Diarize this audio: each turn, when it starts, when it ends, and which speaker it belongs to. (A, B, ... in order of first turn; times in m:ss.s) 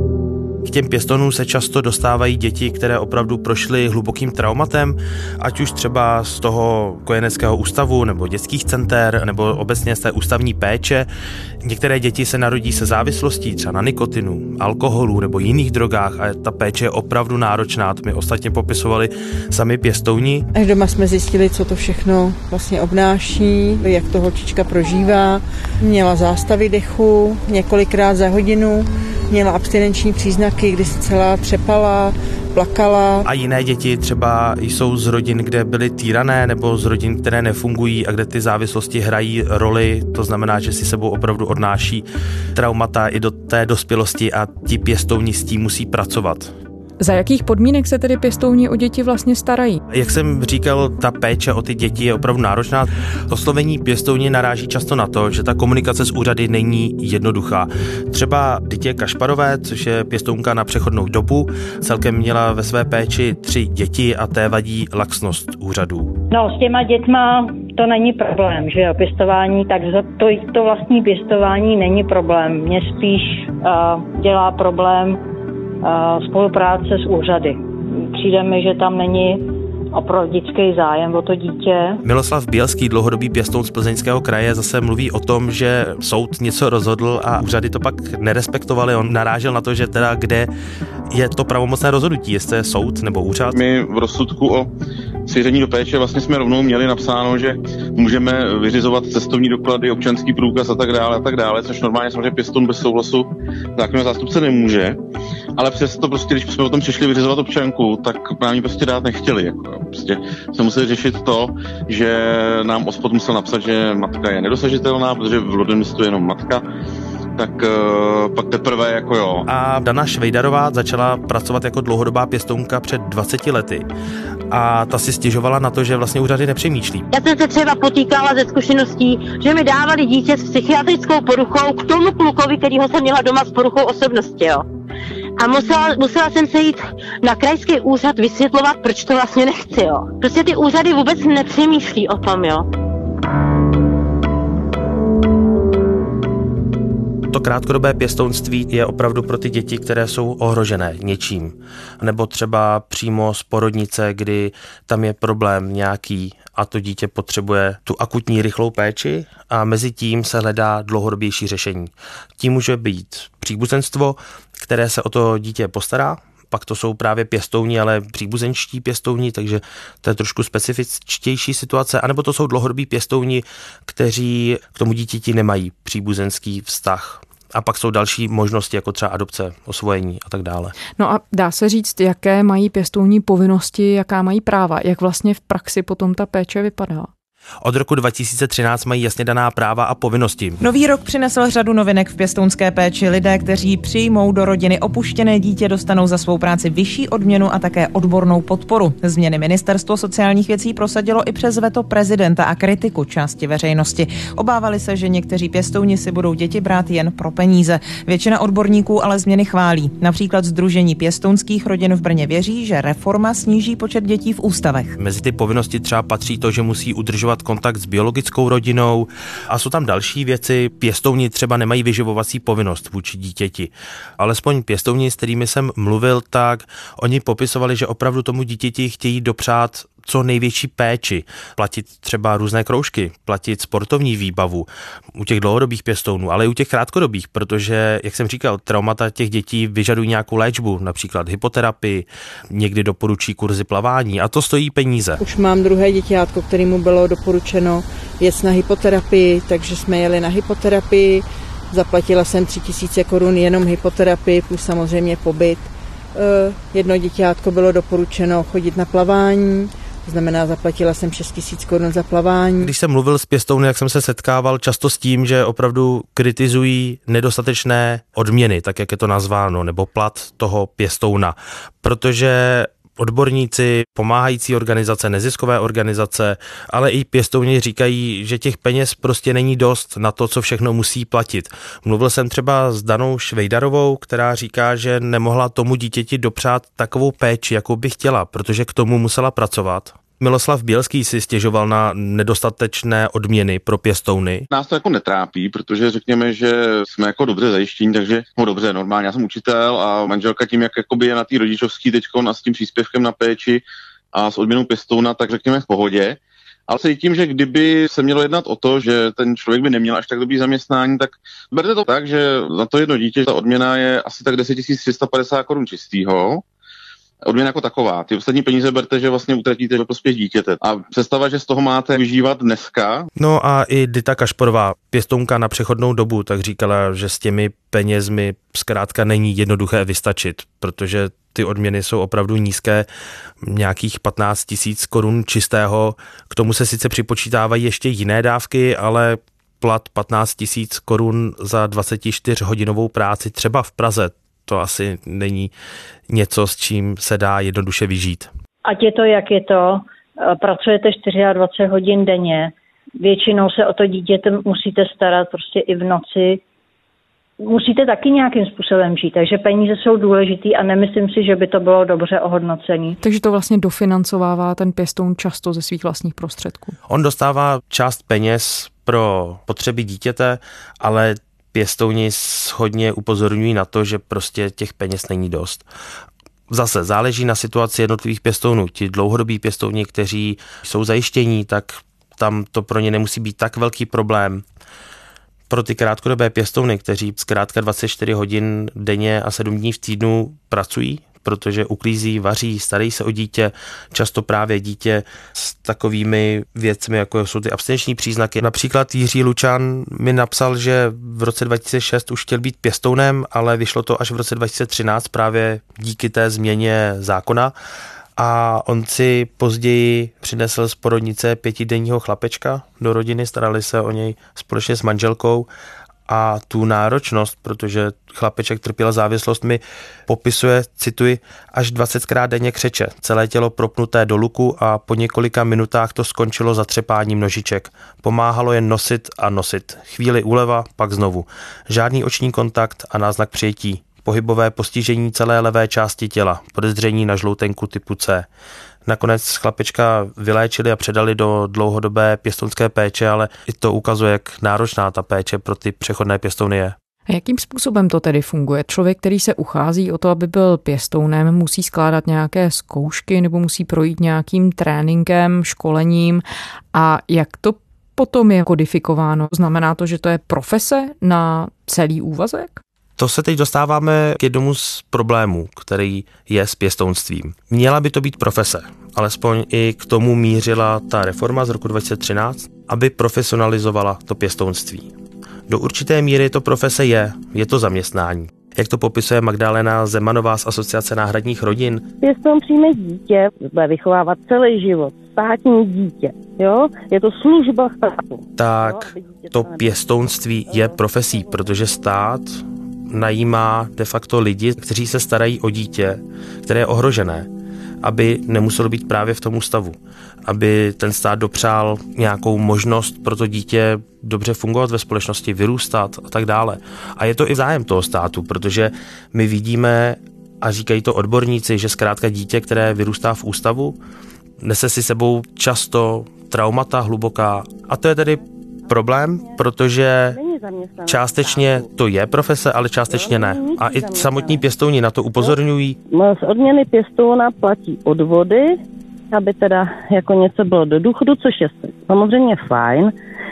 0:00.6-0:11.1 A
0:11.6-0:20.5 A
0:20.5-0:33.2 B
0:33.2-0:46.5 A
0:47.0-0:49.8 C
0:49.9-1:06.1 A
1:06.3-1:15.2 D
1:15.8-1:22.0 D
1:22.0-1:30.5 A
1:31.1-1:33.6 A
1:33.5-1:34.7 E
1:35.3-1:45.0 E
1:45.6-1:56.6 E
1:57.4-1:59.5 E
1:59.5-2:03.9 A
2:04.5-2:07.1 A
2:07.1-2:14.6 F
2:15.4-2:22.7 F
2:27.3-3:00.7 A
3:01.0-3:07.1 C
3:07.6-3:10.6 A
3:10.6-3:35.0 G
3:35.0-4:05.2 A
4:05.2-4:22.7 B
4:22.6-4:54.5 A
4:54.5-5:03.6 E
5:04.1-5:16.4 E
5:17.2-5:23.1 E
5:23.2-5:32.9 A
5:33.4-5:45.5 A
5:46.1-5:48.3 A
5:48.6-5:56.4 D
5:57.4-6:03.0 D
6:03.0-6:06.8 C
6:06.9-6:15.6 A
6:16.5-6:24.4 A
6:25.5-6:47.5 A
6:48.2-6:55.5 A
6:56.1-7:18.3 A
7:18.9-7:26.8 A
7:27.1-7:42.6 C
7:43.0-7:54.9 A
7:55.5-8:01.9 A
8:02.0-8:09.8 H
8:08.4-8:17.3 A
8:10.5-8:11.6 H
8:17.8-8:33.8 A
8:34.4-8:40.2 A
8:38.7-8:39.4 H
8:40.1-8:41.7 H
8:40.9-8:45.8 A
8:42.9-8:44.4 H
8:45.9-8:48.6 H
8:49.1-8:52.9 H